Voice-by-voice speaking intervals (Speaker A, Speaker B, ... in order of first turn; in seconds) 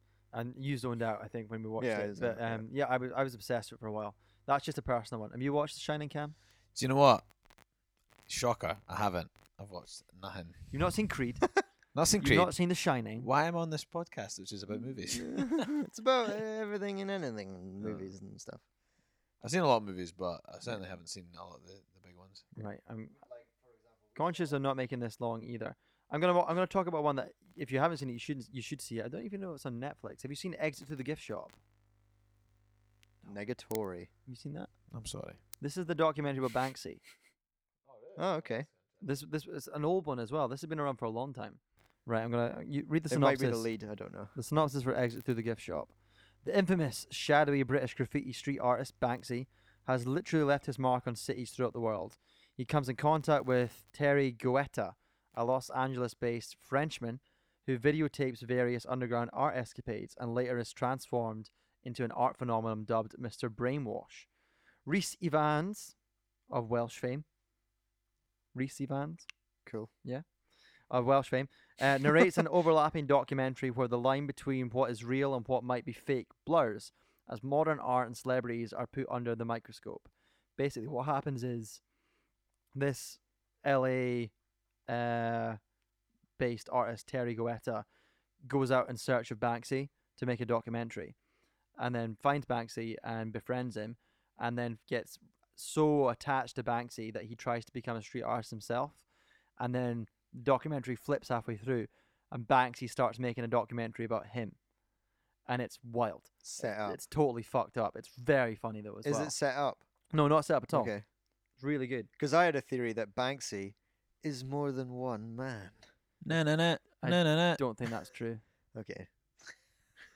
Speaker A: 0.3-6.3, 10.7-11.5, 12.2-13.3, 22.6-23.2, 24.1-31.6, 34.2-34.7, 35.6-37.0, 39.0-43.7, 44.3-64.3, 64.8-65.9, 66.5-67.2, 68.5-69.3, 70.9-81.8, 82.7-84.3, 84.9-85.6, 86.4-87.8, 88.5-91.1, 91.8-99.0, 99.6-104.6, 105.5-109.3, 110.1-110.9, 111.6-112.1, 117.0-118.4
Speaker B: 1.8-2.6, 15.1-18.6, 23.2-24.5, 33.2-34.1, 38.1-38.7, 43.1-44.3, 69.7-69.9, 106.4-107.0, 109.0-109.8, 110.7-111.0, 112.2-115.8, 118.7-119.1
Speaker C: 6.7-7.3, 8.3-10.7, 11.9-12.5, 13.2-15.7, 17.8-18.1, 19.4-22.5, 34.9-35.4, 37.9-39.0, 116.2-117.6